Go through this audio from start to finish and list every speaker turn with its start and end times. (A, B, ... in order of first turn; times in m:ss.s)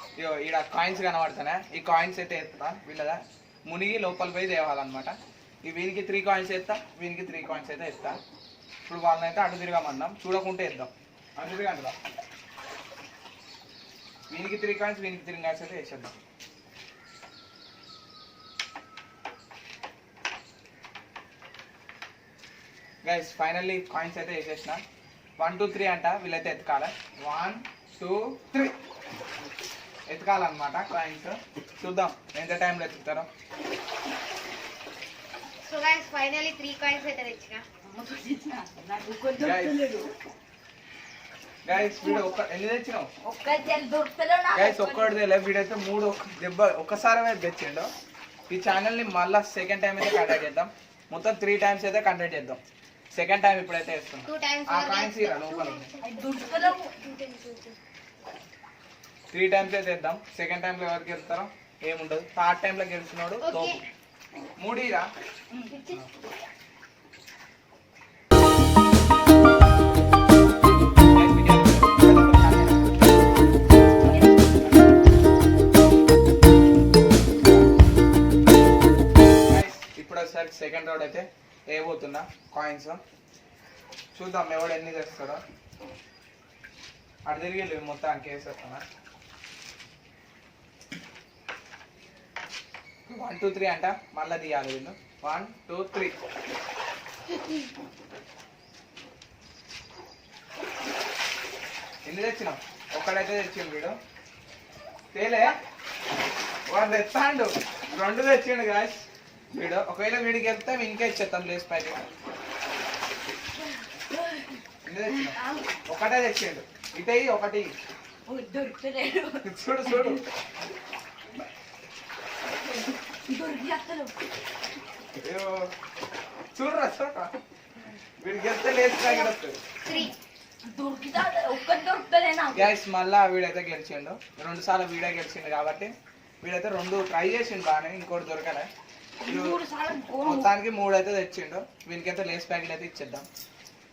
0:00.2-0:08.2 A
0:08.9-0:12.0 A
0:14.3-0:16.2 A
0:23.0-0:24.8 A
0:25.4-0:28.8 A
0:30.1-0:33.3 A
0:35.6-0:37.6 B
0:37.9-0:40.1 C
0:39.4-0:39.9 A
0:41.6-0:43.1 A
0:43.2-0:45.2 C
0:44.6-0:47.9 A
0:48.5-0:52.6 A
0:53.1-0:55.9 A
0:54.3-0:57.8 B
0:56.0-0:57.0 C
0:59.3-1:03.8 A
1:03.4-1:03.8 B
1:04.6-1:05.1 A
1:05.7-1:06.1 B
1:11.1-1:13.1 A
1:14.1-1:14.4 C
1:19.5-1:23.0 A
1:24.2-1:25.4 A
1:27.3-1:28.8 A
1:33.1-1:36.2 A
1:42.0-1:44.0 A
1:45.1-1:45.6 A
1:46.7-1:52.1 A
1:53.9-1:55.8 C
1:54.8-1:57.7 A
1:58.3-2:00.2 C
1:59.4-2:00.2 A
2:02.6-2:04.1 C
2:05.2-2:05.7 A
2:06.5-2:07.4 A
2:08.2-2:09.6 A
2:09.1-2:09.3 B
2:09.8-2:10.2 B
2:10.6-2:12.7 C
2:12.5-2:18.7 A
2:19.2-2:20.5 C
2:19.3-2:19.6 A
2:20.2-2:23.3 A